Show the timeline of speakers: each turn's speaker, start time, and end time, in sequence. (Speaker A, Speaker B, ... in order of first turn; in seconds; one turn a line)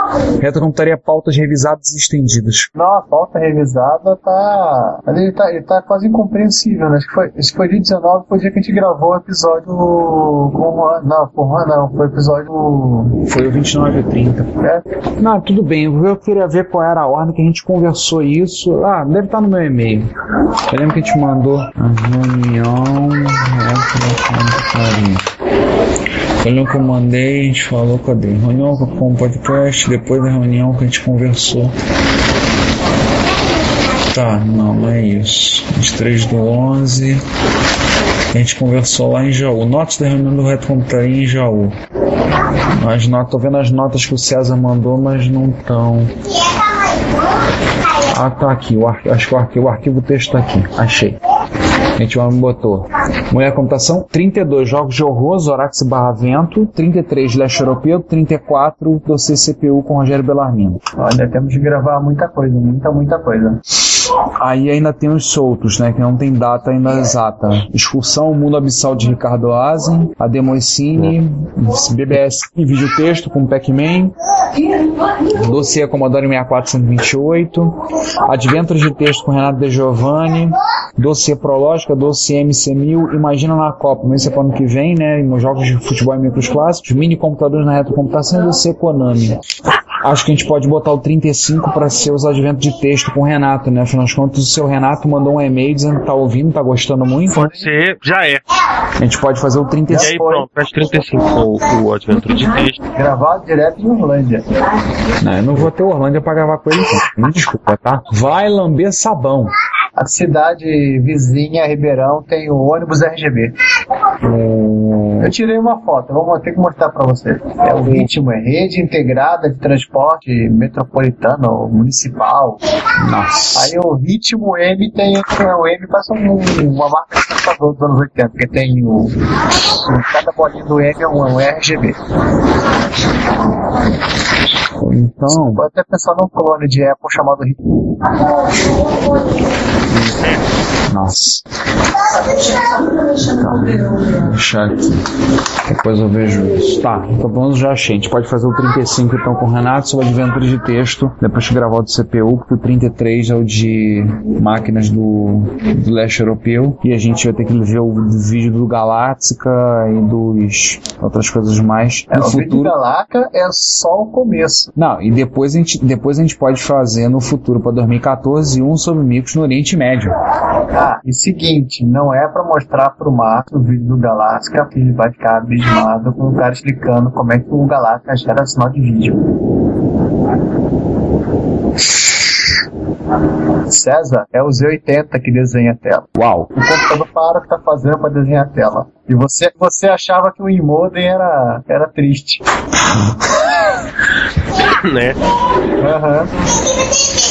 Speaker A: 0.4-2.7
Speaker B: 2.8-13.2
Speaker A: 13.2-14.5
Speaker A: 15.2-20.1
Speaker A: 20.7-25.3
Speaker A: 26.4-31.8
Speaker A: 34.1-37.2
Speaker A: 38.3-41.8
Speaker A: 42.8-46.2
Speaker A: 48.1-51.2
Speaker A: 52.0-60.8
Speaker B: 61.0-63.6
Speaker A: 64.4-74.1
Speaker A: 75.3-77.7
Speaker A: 78.2-89.4
Speaker A: 90.0-97.4
Speaker B: 97.3-97.7
Speaker C: 97.3-98.4
Speaker A: 99.0-100.1
Speaker B: 99.9-100.5
Speaker C: 99.9-102.8
Speaker B: 102.9-104.5
Speaker A: 105.2-109.5
Speaker B: 110.0-113.5
Speaker A: 114.2-115.3
Speaker B: 115.2-122.6
Speaker A: 123.0-123.7
Speaker B: 123.5-132.0
Speaker A: 134.8-135.6
Speaker B: 135.3-138.2
Speaker A: 140.9-141.4
Speaker A: 143.2-145.0
Speaker A: 145.7-162.7
Speaker B: 162.1-164.7
Speaker A: 164.8-170.1
Speaker B: 170.7-179.3
Speaker B: 183.6-192.4
Speaker A: 186.2-186.5
Speaker C: 194.8-195.2
Speaker B: 195.8-196.3